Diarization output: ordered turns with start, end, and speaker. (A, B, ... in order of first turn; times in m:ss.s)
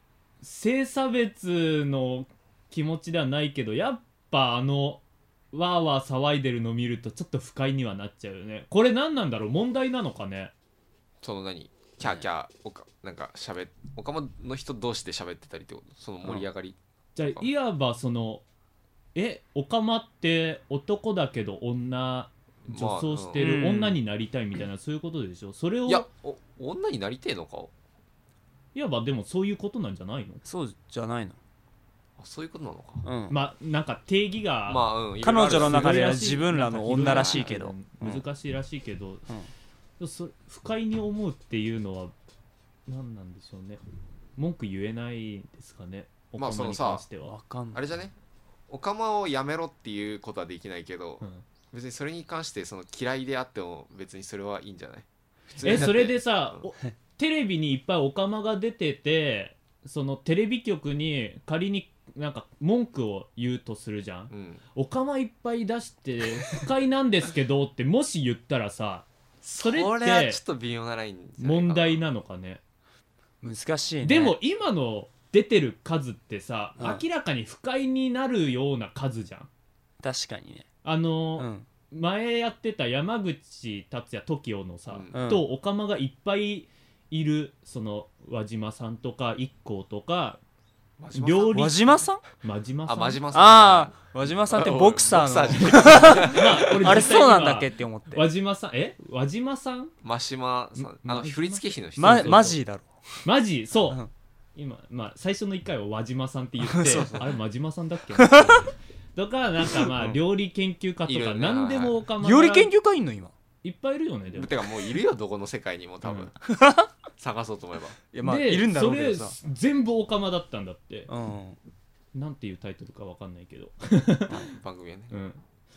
0:00.4-0:10.5 A
0:11.2-0:16.8 B
0:17.2-0:18.4 A
0:19.2-0:26.1 A
0:22.7-0:23.5 B
0:23.4-0:24.0 C
0:25.9-0:27.7 B
0:28.7-0:30.4 A
0:30.4-0:31.4 C
0:32.2-0:33.0 B
0:33.0-0:33.4 C
0:33.3-0:34.8 A
0:34.7-0:36.2 B
0:35.2-0:38.2 C
0:35.5-0:39.3 A
0:37.0-0:37.5 B
0:40.0-0:42.1 A
0:42.9-0:43.8 A
0:44.4-0:47.4 A
0:46.4-0:47.0 B
0:47.2-0:47.8 C
0:47.7-0:48.1 B
0:48.7-0:56.6 B
0:55.6-1:09.1 A
1:04.3-1:04.6 B
1:09.4-1:12.0 B
1:09.6-1:10.4 A
1:11.4-1:12.6 A
1:13.4-1:14.4 C
1:14.0-1:19.5 A
1:20.0-1:20.7 C
1:20.8-1:30.4 A
1:21.4-1:21.7 C
1:24.9-1:25.3 B
1:25.1-1:25.4 C
1:31.0-1:31.8 B
1:31.1-1:31.9 A
1:31.5-1:32.2 C
1:32.4-1:33.2 A
1:32.9-1:36.8 B
1:33.3-1:38.2 C
1:35.6-1:39.9 A
1:40.0-1:42.6 B
1:40.8-1:42.6 A
1:42.0-1:43.2 C
1:43.2-1:44.0 A
1:44.6-1:52.7 A
1:46.6-1:47.3 C
1:48.2-1:48.7 C
1:49.7-1:50.2 C
1:51.1-1:52.0 B
1:52.2-1:53.3 C
1:53.6-1:54.6 A
1:54.4-1:56.4 B
1:56.0-1:56.3 A
1:56.4-1:56.9 C
1:57.2-1:58.0 B
1:58.1-1:59.4 C
1:58.2-2:01.1 A
2:01.1-2:01.6 C
2:02.1-2:04.5 A
2:04.3-2:05.1 B
2:05.1-2:05.4 A